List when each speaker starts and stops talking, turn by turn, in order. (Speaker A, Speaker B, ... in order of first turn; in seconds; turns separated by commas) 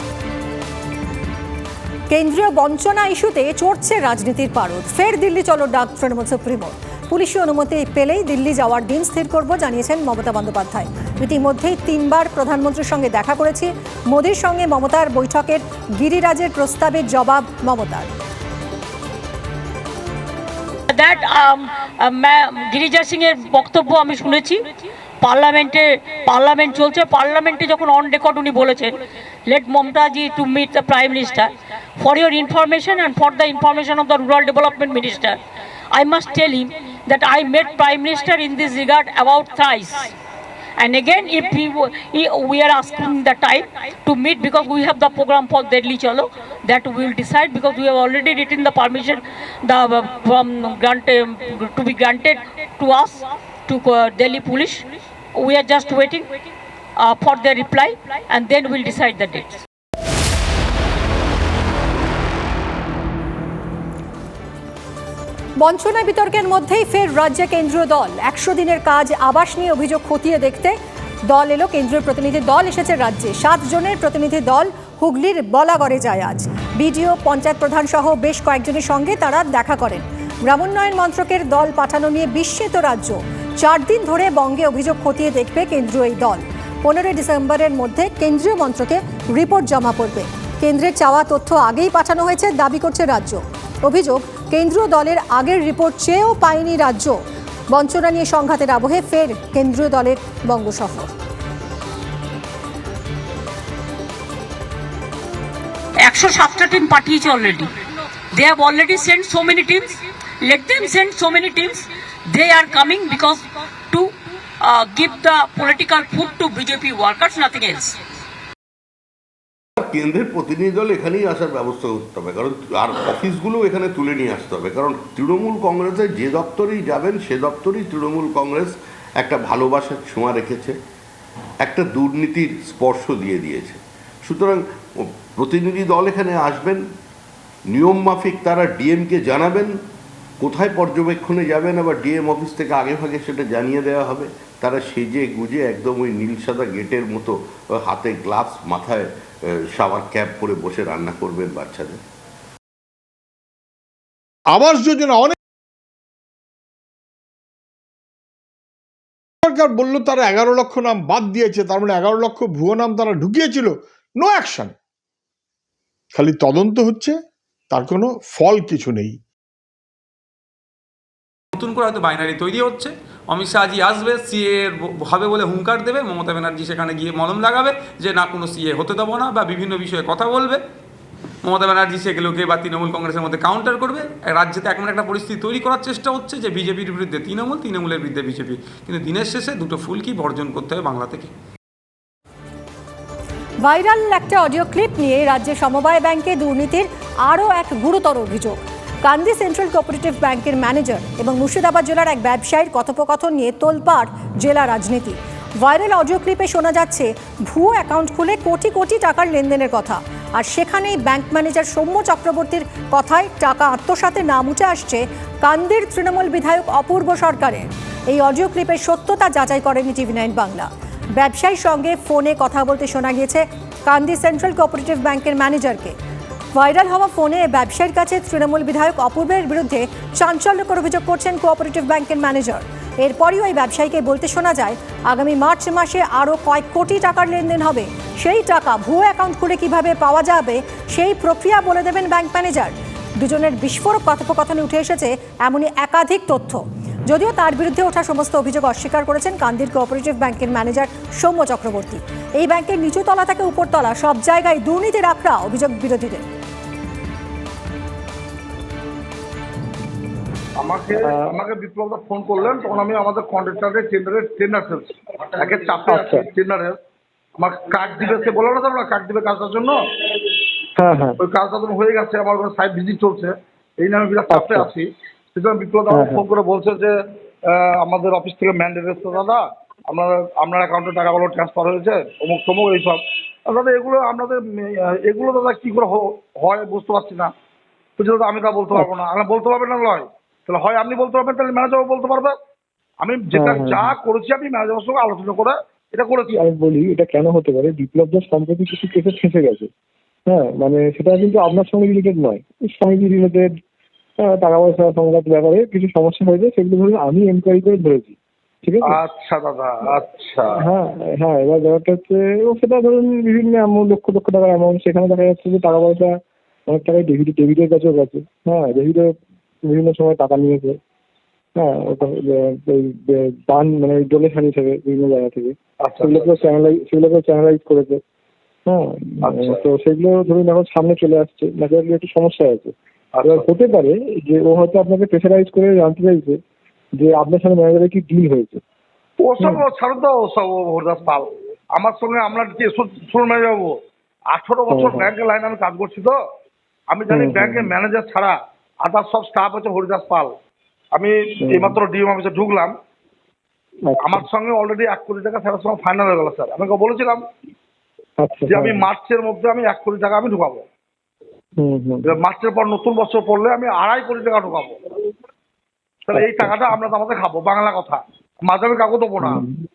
Speaker A: 2.1-18.1, Speaker B: 20.9-24.7, Speaker B: 25.2-35.4, Speaker B: 35.9-40.1, Speaker B: 40.8-56.3, Speaker B: 57.0-59.6, Speaker A: 65.6-70.8, Speaker A: 71.3-97.2, Speaker A: 97.7-101.1, Speaker B: 106.0-107.7, Speaker B: 108.3-118.0, Speaker C: 119.8-130.8, Speaker C: 131.6-136.8, Speaker C: 137.7-139.7, Speaker C: 140.4-152.0, Speaker D: 154.5-155.3, Speaker D: 159.4-163.7, Speaker D: 164.2-164.7, Speaker D: 166.1-167.1, Speaker D: 167.7-169.1, Speaker E: 171.5-180.6, Speaker E: 181.4-191.3, Speaker A: 193.6-225.9, Speaker A: 226.5-256.3, Speaker F: 260.6-266.8, Speaker G: 261.0-261.3, Speaker G: 265.9-266.2, Speaker F: 267.4-269.8, Speaker G: 270.8-271.2, Speaker F: 271.2-276.9, Speaker G: 274.3-274.7, Speaker G: 275.9-276.2, Speaker F: 277.5-287.3, Speaker F: 288.0-292.4, Speaker F: 293.0-296.3, Speaker G: 293.3-293.9, Speaker G: 296.3-299.7, Speaker G: 300.3-303.5, Speaker G: 304.2-309.0, Speaker F: 308.9-310.5, Speaker G: 310.6-316.2, Speaker G: 316.7-319.1, Speaker G: 319.6-320.8, Speaker G: 321.6-328.0, Speaker F: 325.8-326.4, Speaker G: 328.7-332.7, Speaker F: 329.2-329.6, Speaker F: 333.1-333.4, Speaker G: 333.2-336.4, Speaker G: 336.9-338.6, Speaker F: 339.2-343.8, Speaker F: 344.3-346.2, Speaker G: 344.7-345.1, Speaker F: 346.9-350.3, Speaker G: 347.1-347.7, Speaker F: 350.9-352.7, Speaker G: 351.4-351.8, Speaker G: 353.9-354.2, Speaker F: 354.0-357.2, Speaker G: 358.2-358.9, Speaker F: 358.5-360.6, Speaker G: 361.6-362.1, Speaker F: 362.1-364.7, Speaker F: 366.1-369.4, Speaker G: 366.1-366.7, Speaker G: 369.2-369.6